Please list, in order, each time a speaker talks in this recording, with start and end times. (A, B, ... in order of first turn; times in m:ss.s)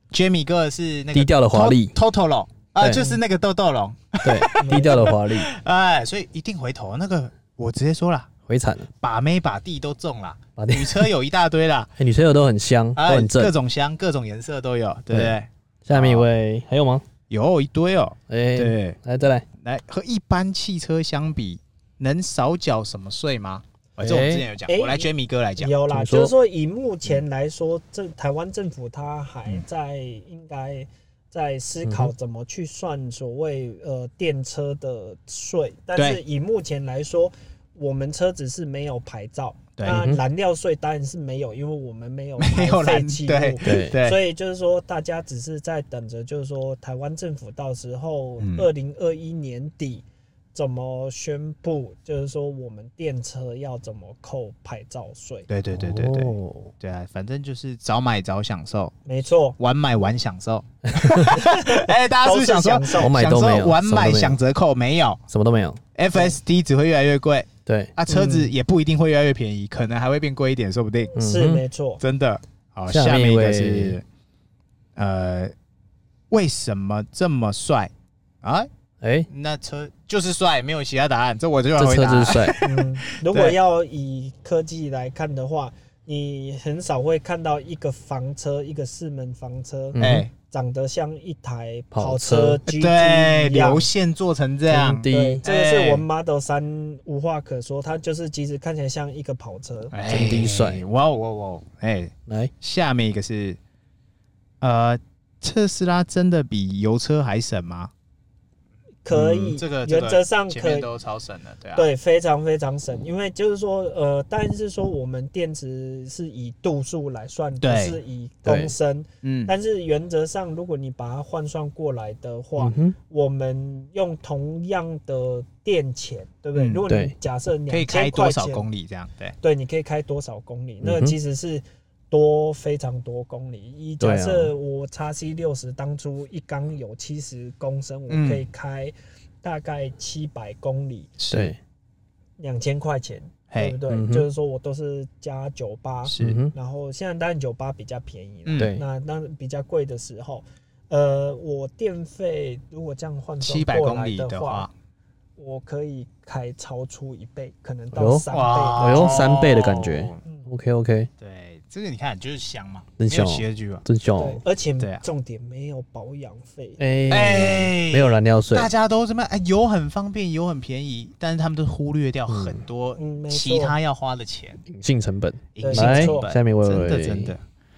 0:00.1-0:08.3 A
0:01.1-0:02.0 B
0:04.2-0:05.5 B
0:04.6-0:05.0 C
0:08.5-0:08.9 B
0:09.0-0:11.9 A
0:10.6-0:11.1 B
0:12.0-0:13.5 B
0:13.0-0:16.3 A
0:15.9-0:17.1 B
0:17.3-0:19.0 A
0:18.3-0:19.5 B
0:19.6-0:25.7 A
0:24.0-0:24.5 B
0:24.7-0:55.5 C
0:25.9-0:26.3 B
0:31.8-0:32.1 B
0:36.0-0:36.2 A
0:39.8-0:40.0 A
0:39.9-0:40.2 B
0:42.4-0:44.2 A
0:43.6-0:44.0 B
0:48.4-0:48.7 A
0:55.5-0:59.0 A
0:55.7-0:56.7 B
0:59.1-0:59.6 C
0:59.6-1:05.2 A
1:00.9-1:01.3 B
1:01.3-1:03.2 C
1:03.0-1:04.4 B
1:05.3-1:05.8 B
1:06.0-1:11.1 A
1:07.7-1:07.9 B
1:08.1-1:08.5 C
1:11.2-1:12.0 C
1:11.2-1:11.6 B
1:12.0-1:14.0 A
1:12.9-1:14.0 B
1:15.0-1:15.5 A
1:16.3-1:17.9 A
1:18.4-1:18.7 A
1:19.0-1:19.3 B
1:19.3-1:23.6 A
1:21.8-1:22.6 B
1:22.6-1:33.9 C
1:30.0-1:30.3 B
1:30.0-1:30.3 A
1:31.9-1:32.6 B
1:32.7-1:36.0 A
1:34.7-1:35.4 B
1:35.1-1:39.9 C
1:39.9-1:43.6 A
1:40.1-1:40.8 B
1:44.6-1:47.9 A
1:49.0-1:50.9 C
1:49.1-1:51.9 A
1:51.8-2:08.6 C
1:57.6-1:58.0 A
1:58.4-1:58.7 B
1:59.2-1:59.5 A
2:02.6-2:03.0 B
2:06.6-2:06.8 A
2:06.9-2:07.1 B
2:07.7-2:09.4 A
2:09.4-2:21.2 C
2:10.8-2:11.2 B
2:14.0-2:14.5 B
2:18.1-2:18.4 A
2:21.2-2:21.5 A
2:21.3-2:21.6 B
2:22.4-2:34.7 C
2:23.5-2:23.8 A
2:23.9-2:24.3 B
2:26.1-2:26.4 A
2:26.2-2:26.5 B
2:28.5-2:28.7 A
2:28.6-2:28.8 B
2:33.4-2:34.7 A
2:35.4-2:39.4 C
2:37.9-2:38.2 B
2:38.3-2:40.2 A
2:38.8-2:41.1 B
2:40.2-2:40.5 C
2:41.2-2:43.8 A
2:43.0-2:44.4 B
2:44.2-2:46.8 C
2:46.8-2:48.7 B
2:47.1-2:54.6 A
2:52.3-2:52.6 B
2:53.0-2:53.8 C
2:54.7-2:57.3 B
2:55.6-2:57.4 A
2:55.6-2:56.3 C